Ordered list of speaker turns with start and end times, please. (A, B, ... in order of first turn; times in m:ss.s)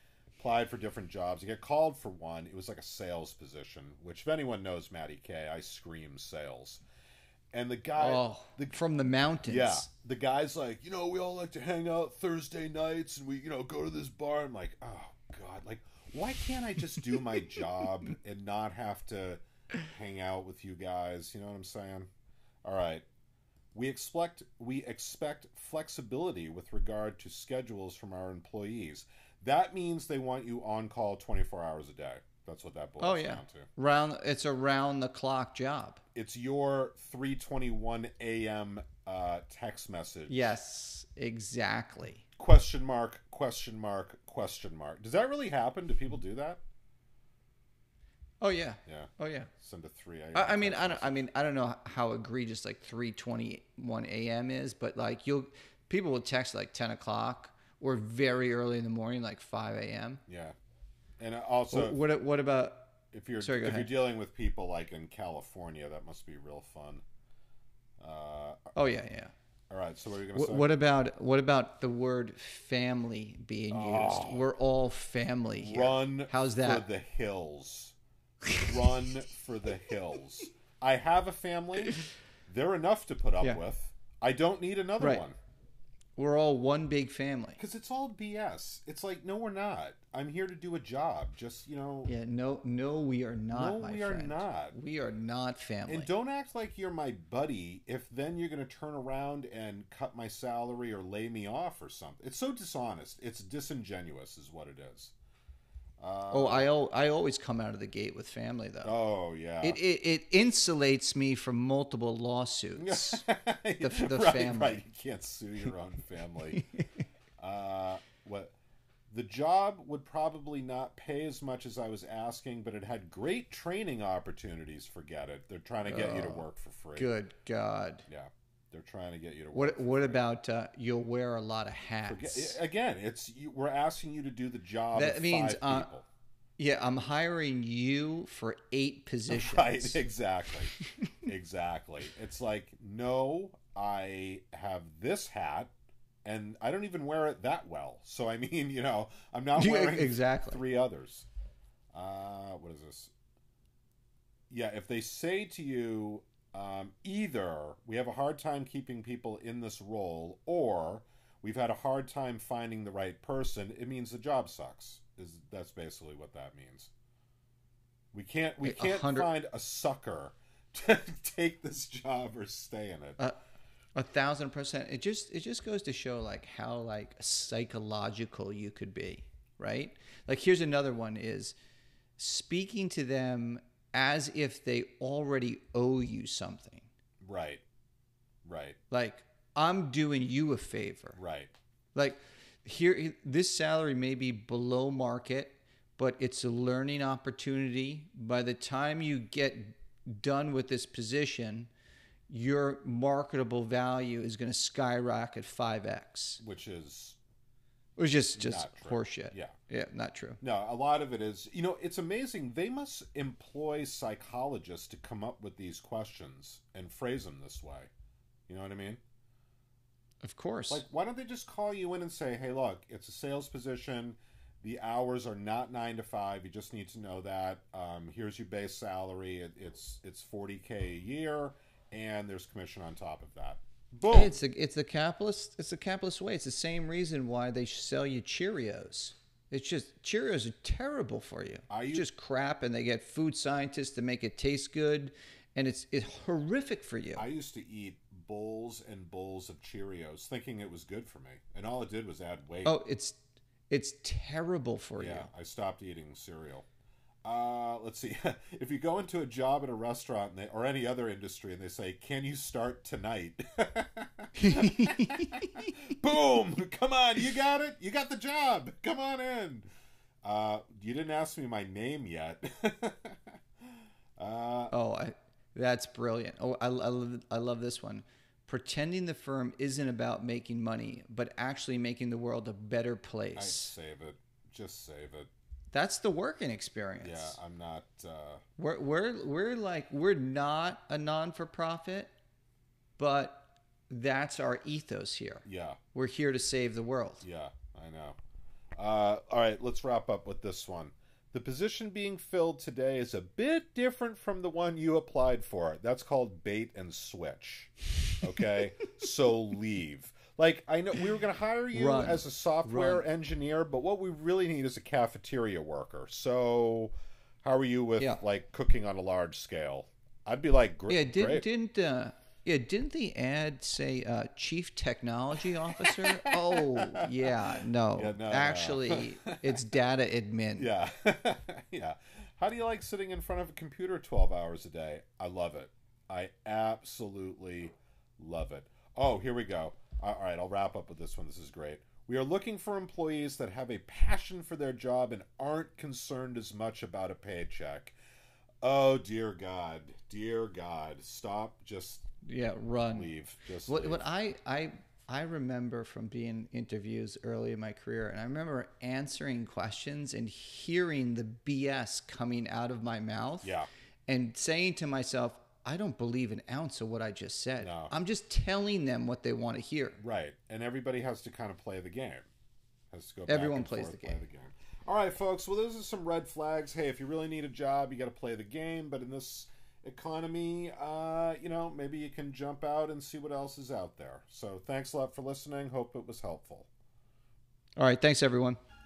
0:00.4-0:06.8 A
0:07.5-0:08.8 A
0:08.0-0:09.9 B
0:09.5-0:22.1 A
0:22.6-0:23.0 A
0:23.7-0:33.7 A
0:33.0-0:36.0 B
0:36.2-0:40.6 A
0:40.3-0:42.2 B
0:42.4-0:46.6 A
0:48.4-0:49.5 B
0:48.9-0:51.2 A
0:50.3-1:00.2 B
1:00.3-1:00.6 A
1:01.2-1:02.0 A
1:01.7-1:03.9 B
1:03.1-1:07.0 A
1:08.0-1:08.8 A
1:08.8-1:09.3 B
1:09.7-1:10.7 A
1:10.3-1:16.9 B
1:13.7-1:14.5 A
1:15.6-1:17.9 A
1:18.6-1:25.4 A
1:25.0-1:25.3 B
1:26.2-1:27.6 B
1:27.6-1:32.1 A
1:32.1-1:36.1 B
1:33.5-1:34.8 A
1:35.9-1:45.1 A
1:46.0-1:46.7 A
1:46.3-1:48.9 B
1:48.8-1:49.8 A
1:49.6-1:53.2 B
1:52.8-1:56.7 A
1:53.8-1:54.8 B
1:57.4-1:58.6 A
1:59.1-2:07.1 A
2:05.8-2:08.1 B
2:08.1-2:10.2 A
2:09.5-2:12.6 B
2:12.1-2:16.0 A
2:14.9-2:15.9 B
2:16.6-2:20.0 B
2:19.3-2:20.7 A
2:21.2-2:25.7 A
2:26.2-2:31.3 A
2:29.6-2:30.6 B
2:31.9-2:33.1 A
2:34.5-2:46.9 A
2:48.1-2:53.2 A
2:48.6-2:49.3 B
2:54.0-3:01.6 B
3:02.2-3:06.9 B
3:07.2-3:07.6 A
3:08.4-3:08.8 A
3:08.9-3:11.2 B
3:11.2-3:11.5 A
3:11.9-3:21.7 B
3:22.3-3:26.4 B
3:26.4-3:27.2 A
3:28.0-3:30.4 B
3:28.4-3:29.6 A
3:30.4-3:37.9 A
3:38.5-3:39.0 A
3:40.2-3:40.8 B
3:40.7-3:54.4 A
3:54.1-4:07.3 B
4:01.7-4:02.1 A
4:07.2-4:12.8 A
4:12.6-4:15.3 B
4:15.0-4:16.7 A
4:17.2-4:29.7 A
4:24.4-4:25.6 B
4:30.2-4:33.3 A
4:34.2-4:34.7 A
4:34.7-4:43.7 B
4:43.4-4:45.3 A
4:45.7-4:47.4 B
4:47.0-4:48.4 A
4:48.6-4:52.1 B
4:53.0-4:57.2 B
4:55.4-4:55.8 A
4:57.2-4:58.2 A
4:58.8-5:21.4 A
5:11.7-5:13.1 B
5:20.9-5:30.7 B
5:25.9-5:27.1 A
5:28.0-5:29.6 A
5:30.6-5:47.9 A
5:48.6-5:52.1 A
5:52.2-5:53.1 B
5:52.8-5:54.1 A
5:53.7-6:10.0 B
6:03.4-6:03.7 A
6:07.6-6:07.9 A
6:10.0-6:12.3 A
6:12.9-6:26.7 A
6:13.3-6:14.2 B
6:27.8-6:28.6 B